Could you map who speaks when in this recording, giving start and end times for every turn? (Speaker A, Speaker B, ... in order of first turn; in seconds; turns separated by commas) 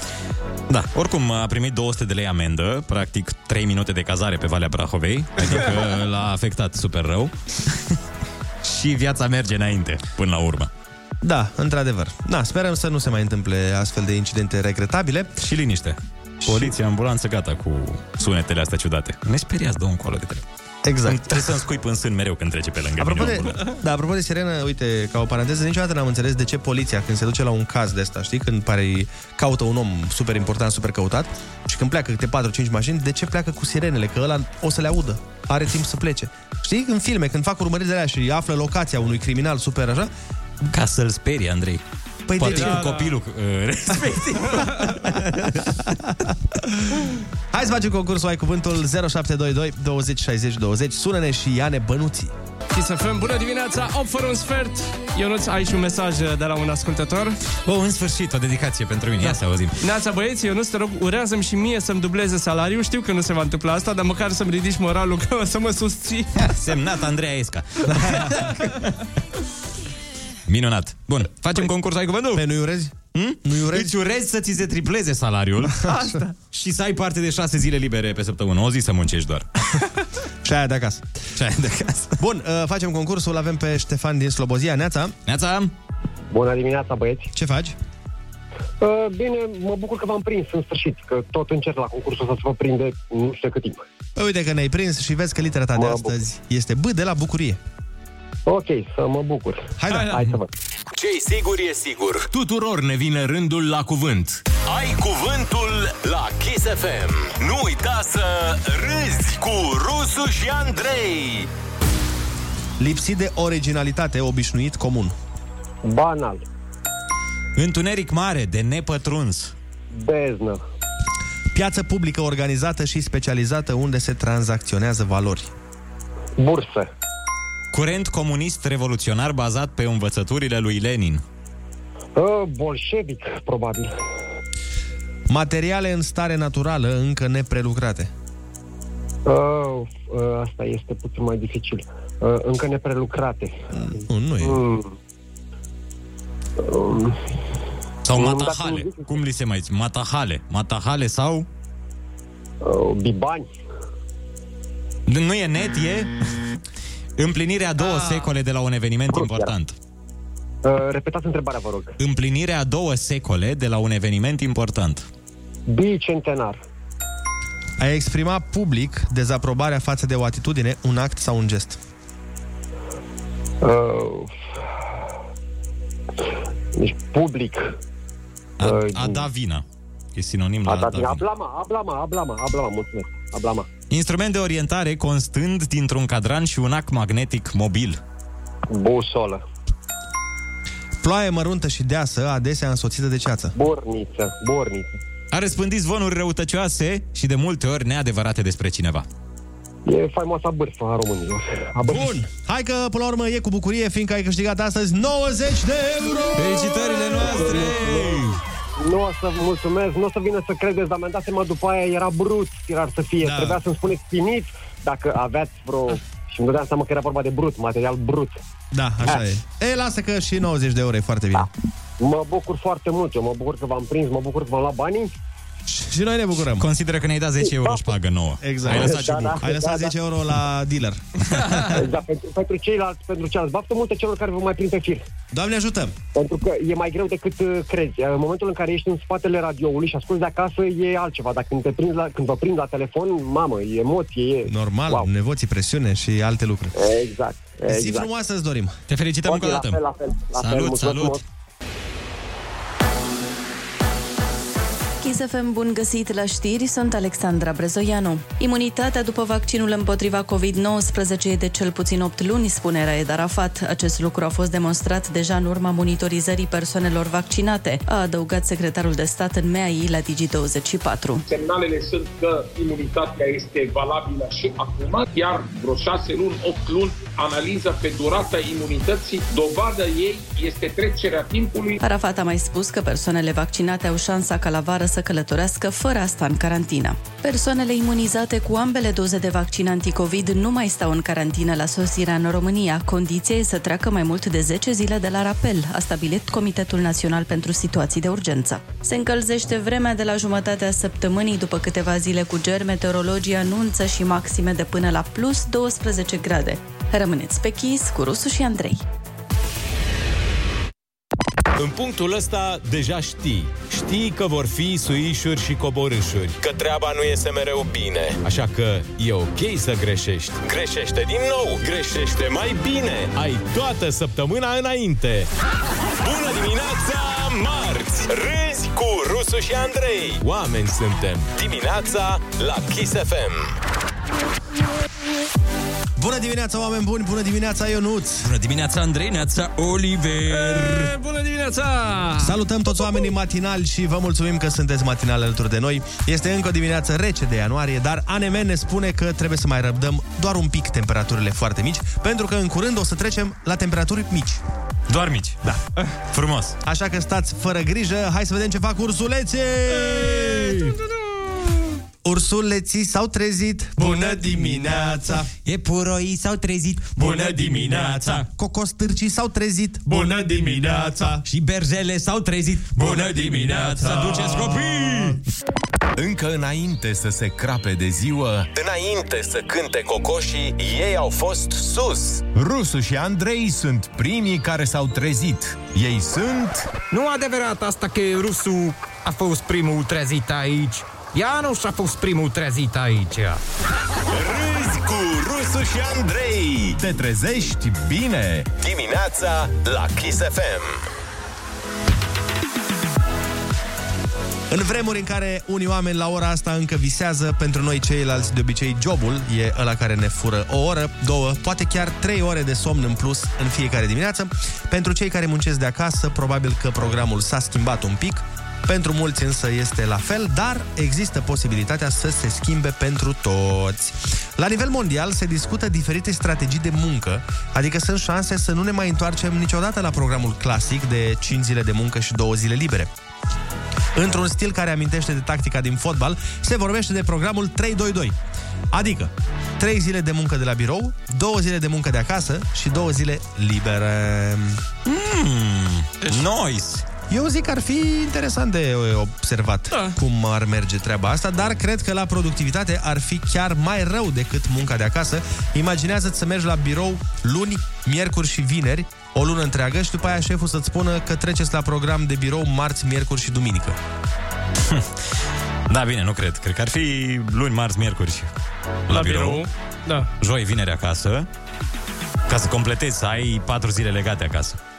Speaker A: 0.7-7.8, Speaker A: 8.6-10.7, Speaker B: 11.2-15.4, Speaker A: 15.4-20.4, Speaker B: 16.4-16.7, Speaker B: 20.8-21.6, Speaker A: 21.0-23.7, Speaker B: 23.0-40.1, Speaker A: 40.7-41.8, Speaker B: 42.3-42.9, Speaker A: 42.4-45.9, Speaker C: 42.4-43.1, Speaker C: 44.3-44.9, Speaker B: 47.5-52.3, Speaker C: 52.7-57.4, Speaker A: 57.6-59.8, Speaker C: 59.2-66.5, Speaker A: 66.3-69.0, Speaker B: 68.0-68.2, Speaker A: 70.5-72.5, Speaker B: 72.3-73.9, Speaker A: 73.1-79.5, Speaker B: 75.8-76.2, Speaker B: 80.4-81.0, Speaker A: 81.3-82.2, Speaker B: 82.2-85.2, Speaker A: 85.3-85.7, Speaker D: 86.3-87.3, Speaker B: 87.3-87.8, Speaker D: 88.8-93.8, Speaker B: 94.2-97.6, Speaker D: 95.8-96.1, Speaker D: 98.5-100.5, Speaker B: 99.8-100.2, Speaker C: 99.9-100.2, Speaker E: 100.9-102.3, Speaker F: 102.3-104.4, Speaker E: 104.6-111.5, Speaker B: 112.8-115.2, Speaker D: 115.8-116.4, Speaker A: 117.5-119.5, Speaker D: 119.9-120.6, Speaker B: 121.5-125.5, Speaker D: 126.4-126.9, Speaker A: 127.7-131.2, Speaker D: 132.2-133.9, Speaker B: 135.3-138.1, Speaker D: 139.2-143.6, Speaker B: 143.7-144.6, Speaker D: 144.4-144.9, Speaker D: 146.6-147.2, Speaker A: 148.0-151.5, Speaker D: 148.1-149.1, Speaker D: 152.6-153.5, Speaker A: 155.1-156.6, Speaker A: 157.2-159.7, Speaker C: 157.8-158.3, Speaker D: 159.1-159.5, Speaker D: 160.6-161.9, Speaker A: 162.0-165.1, Speaker D: 165.7-166.6, Speaker B: 167.8-171.8, Speaker D: 173.6-174.3, Speaker D: 176.7-177.7, Speaker A: 178.6-179.6, Speaker D: 178.6-179.2, Speaker A: 180.1-181.2, Speaker D: 180.7-183.7, Speaker A: 183.9-188.0, Speaker D: 188.7-189.4, Speaker B: 191.0-193.5, Speaker D: 193.5-194.9, Speaker A: 195.3-199.1, Speaker D: 199.8-202.1, Speaker B: 201.9-206.9, Speaker A: 206.3-208.4, Speaker D: 207.2-208.2, Speaker D: 208.8-218.4, Speaker B: 213.2-213.6, Speaker B: 218.7-221.5, Speaker D: 222.0-225.1, Speaker B: 225.7-226.6, Speaker A: 226.6-229.4, Speaker D: 227.4-227.8, Speaker B: 228.4-231.6, Speaker D: 228.7-229.9, Speaker D: 231.7-235.0, Speaker B: 235.3-235.9, Speaker D: 236.1-245.1, Speaker B: 244.4-246.8, Speaker D: 246.8-248.1, Speaker B: 247.7-248.8, Speaker A: 248.9-249.8, Speaker D: 249.2-251.2, Speaker A: 250.3-251.2, Speaker G: 255.0-271.2, Speaker H: 271.3-281.8, Speaker G: 281.8-308.8, Speaker F: 311.6-316.4, Speaker E: 316.4-318.2, Speaker F: 318.2-320.4, Speaker E: 320.4-323.1, Speaker F: 323.1-325.3, Speaker E: 326.0-330.2, Speaker F: 330.2-331.3, Speaker E: 331.3-333.5, Speaker B: 335.9-338.3, Speaker A: 338.2-340.9, Speaker C: 340.3-342.3, Speaker B: 342.2-354.4, Speaker A: 354.9-355.5, Speaker A: 356.1-356.6, Speaker B: 356.6-360.7, Speaker C: 360.0-361.4, Speaker B: 362.0-365.3, Speaker C: 363.8-364.9, Speaker A: 365.4-368.3, Speaker B: 368.1-371.2, Speaker C: 369.9-370.9, Speaker A: 371.2-375.2, Speaker B: 373.8-375.1, Speaker F: 375.9-378.5, Speaker E: 378.5-382.2, Speaker F: 382.3-386.7, Speaker I: 386.9-393.4, Speaker E: 394.1-396.8, Speaker F: 396.8-398.5, Speaker E: 398.6-400.8, Speaker B: 404.5-432.9, Speaker B: 433.9-438.2, Speaker B: 438.7-444.6, Speaker A: 444.8-446.9, Speaker B: 447.1-463.8, Speaker C: 449.7-450.0, Speaker A: 464.6-464.9, Speaker A: 465.7-468.3, Speaker A: 468.9-469.4, Speaker C: 468.9-470.1, Speaker A: 470.2-471.3, Speaker A: 472.3-474.6